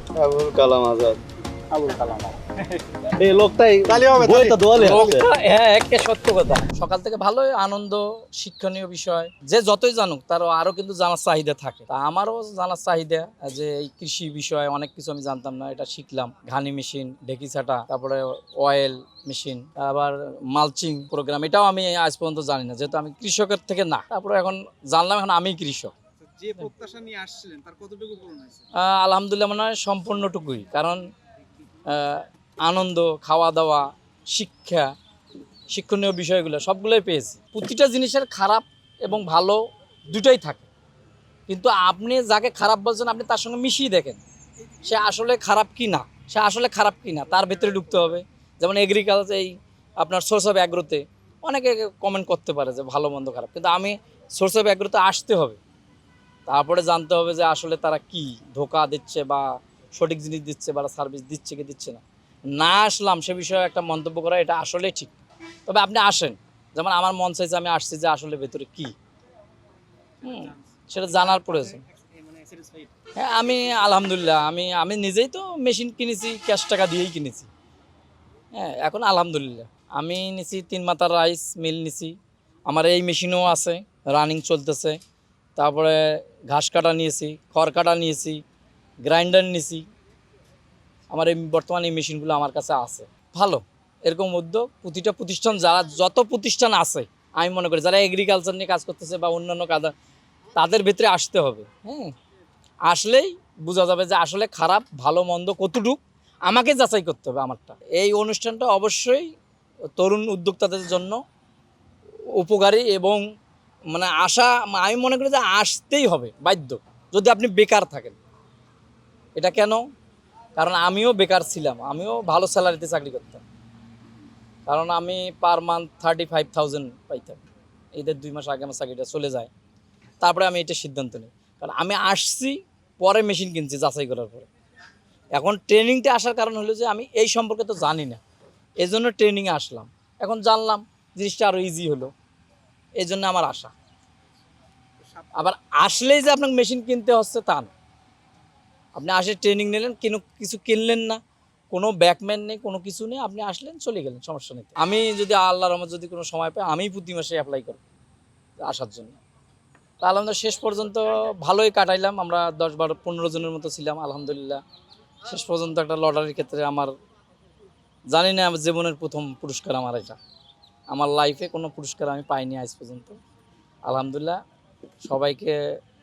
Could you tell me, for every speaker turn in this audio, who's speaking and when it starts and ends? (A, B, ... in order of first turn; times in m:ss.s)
0:00.2-0:01.2 A
0:01.7-0:02.4 B
0:03.2-0:05.2 A
0:03.9-0:04.8 B
0:04.8-0:26.0 C
0:26.2-0:28.6 B
0:28.7-0:31.0 C
0:31.8-0:34.9 C
0:35.7-0:40.7 C
0:41.5-0:44.2 C
0:44.8-0:55.6 C
0:56.5-1:02.0 C
1:02.5-1:05.1 C
1:05.7-1:08.9 C
1:10.2-1:11.8 C
1:12.0-1:12.9 B
1:13.2-1:17.5 C
1:18.5-1:22.1 C
1:22.7-1:25.0 C
1:25.6-1:28.4 C
1:29.0-1:29.8 C
1:31.1-1:39.9 C
1:40.6-1:42.1 C
1:42.9-1:49.3 C
1:50.0-1:51.2 C
1:52.4-1:53.2 C
1:53.9-1:58.2 C
1:59.4-1:59.8 C
2:00.6-2:03.4 C
2:04.7-2:07.4 C
2:07.9-2:09.5 C
2:10.2-2:14.5 C
2:15.4-2:18.2 C
2:18.8-2:22.1 C
2:23.0-2:23.7 C
2:25.3-2:27.7 C
2:29.0-2:31.2 C
2:31.7-2:37.8 C
2:38.6-2:39.2 C
2:40.0-2:44.6 C
2:45.2-2:46.9 C
2:48.1-2:50.2 C
2:50.9-2:53.2 C
2:53.8-2:54.4 C
2:55.0-2:55.6 C